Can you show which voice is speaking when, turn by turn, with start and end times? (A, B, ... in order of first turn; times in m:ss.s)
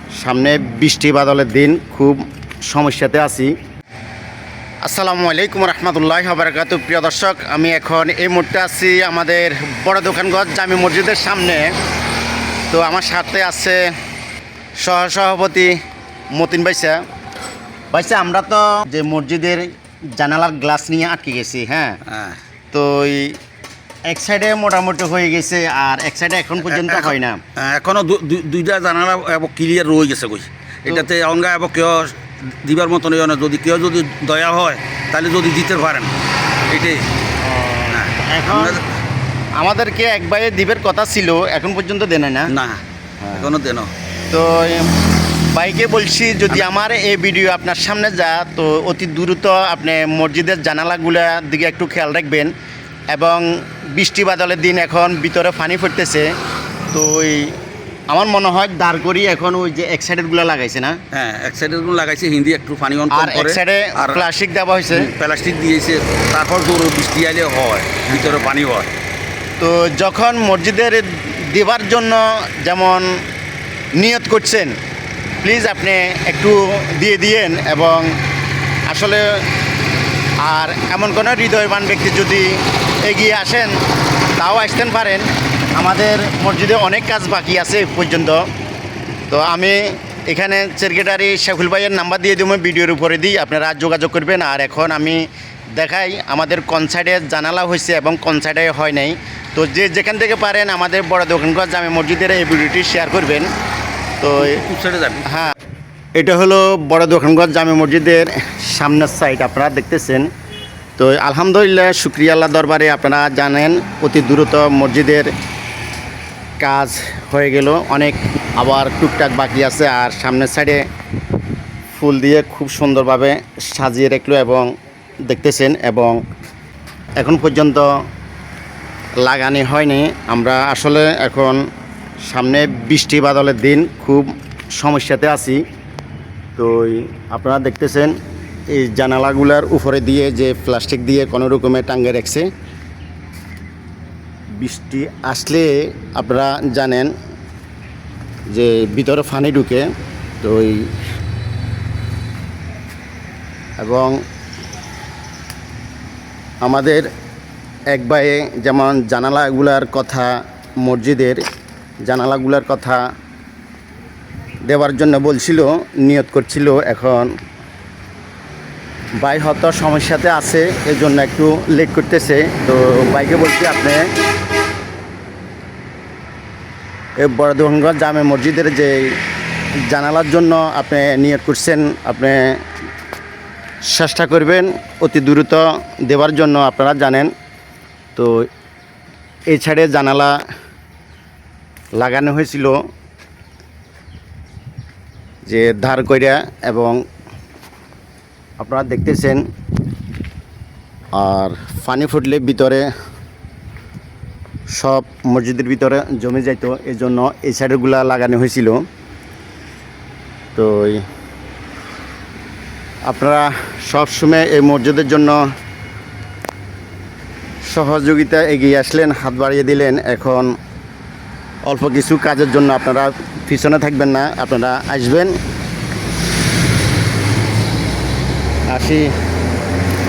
0:00.2-0:03.5 A
0:04.8-0:11.7 A
0:12.7-0:13.9 A
0:14.8-0:15.8 A
0:16.3-0:17.0 A
0:17.9-0:22.0 A
0:22.0-0:22.4 B
0:22.7-0:23.4 A
0:24.1-0:27.4 A
0:26.7-0:36.1 B
0:36.7-0:37.0 B
0:37.4-0:38.8 A
0:37.9-0:38.8 B
0:39.6-0:42.5 A
0:42.5-0:42.8 B
0:43.2-0:43.5 A
0:43.3-0:43.9 B
0:44.3-0:45.0 A
0:45.5-0:52.5 A
0:53.1-0:56.3 A
0:56.9-0:57.6 A
0:58.1-1:01.0 A
1:01.1-1:04.3 B
1:03.1-1:05.1 A
1:04.9-1:08.9 B
1:08.1-1:08.5 A
1:09.6-1:13.1 A
1:14.0-1:14.7 A
1:15.4-1:18.1 A
1:18.9-1:19.4 A
1:20.4-1:23.7 A
1:24.4-1:28.5 A
1:29.3-1:43.5 A
1:44.2-1:44.6 A
1:44.4-1:45.3 B
1:45.3-1:45.6 A
1:46.2-1:50.3 A
1:51.0-1:55.3 A
1:56.6-2:00.9 A
2:01.9-2:04.7 A
2:05.2-2:06.2 A
2:07.2-2:08.0 A
2:09.2-2:11.6 A
2:12.2-2:15.6 A
2:16.6-2:18.2 A
2:18.7-2:22.5 A
2:24.6-2:27.1 A
2:28.5-2:29.9 A
2:30.4-2:30.9 A
2:33.8-2:34.2 A
2:36.6-2:37.1 A
2:37.9-2:41.4 A
2:42.0-2:43.0 A
2:44.7-2:47.3 A
2:49.2-2:54.1 A
2:57.2-2:59.2 A
2:59.9-3:02.6 A
3:03.9-3:07.3 A
3:09.5-3:10.4 A
3:12.0-3:12.8 A
3:15.4-3:17.0 A
3:18.6-3:19.4 A
3:21.2-3:22.9 A
3:24.7-3:28.8 A
3:30.6-3:31.0 A
3:33.0-3:35.5 A
3:37.7-3:40.5 A
3:41.7-3:45.4 A
3:48.7-3:49.1 A